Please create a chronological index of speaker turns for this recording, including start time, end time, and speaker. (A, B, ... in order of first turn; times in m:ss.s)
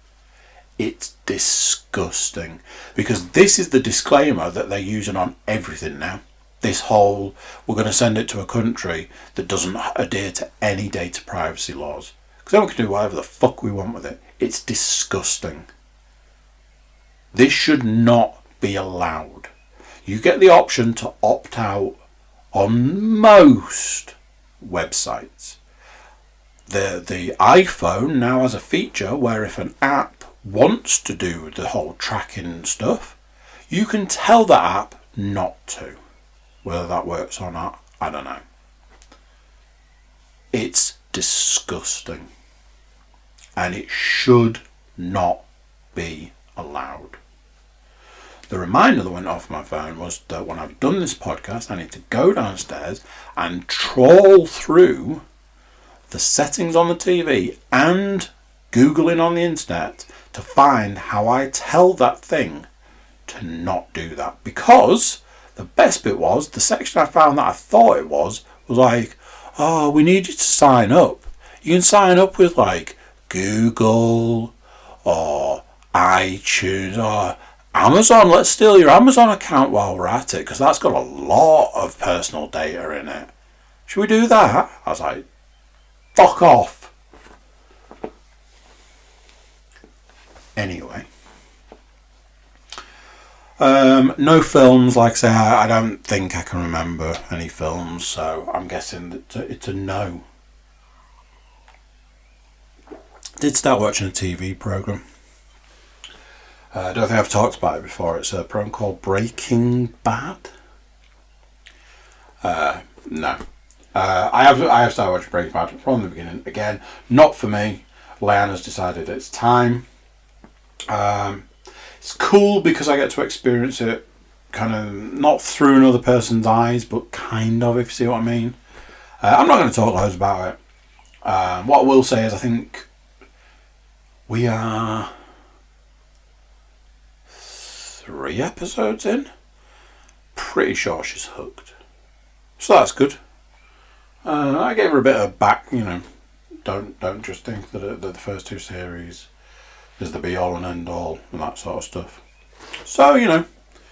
0:00.8-0:15.7 A
0:17.3-0:19.5 A
0:20.0-0:22.0 A
0:22.5-0:25.6 A
0:26.7-0:33.2 A
0:33.7-0:36.0 A
0:36.6-0:38.4 A
0:40.5-0:42.3 A
0:43.6-0:47.2 A
0:48.5-0:55.2 A
0:56.1-1:02.7 A
1:03.3-1:23.3 A
1:23.9-1:25.2 A
1:26.2-1:26.9 A
1:30.6-1:31.1 A
1:33.6-1:40.2 A
1:43.4-1:45.0 A
1:46.7-1:50.5 A
1:52.4-1:53.4 A
1:53.9-1:59.8 A
2:00.9-2:01.5 A
2:02.0-2:08.6 A
2:09.2-2:10.6 A
2:11.2-2:12.9 A
2:14.3-2:15.1 A
2:17.3-2:19.3 A
2:20.3-2:21.7 A
2:22.6-2:23.2 A
2:24.2-2:26.0 A
2:26.6-2:29.3 A
2:30.0-2:32.2 A
2:32.8-2:33.4 A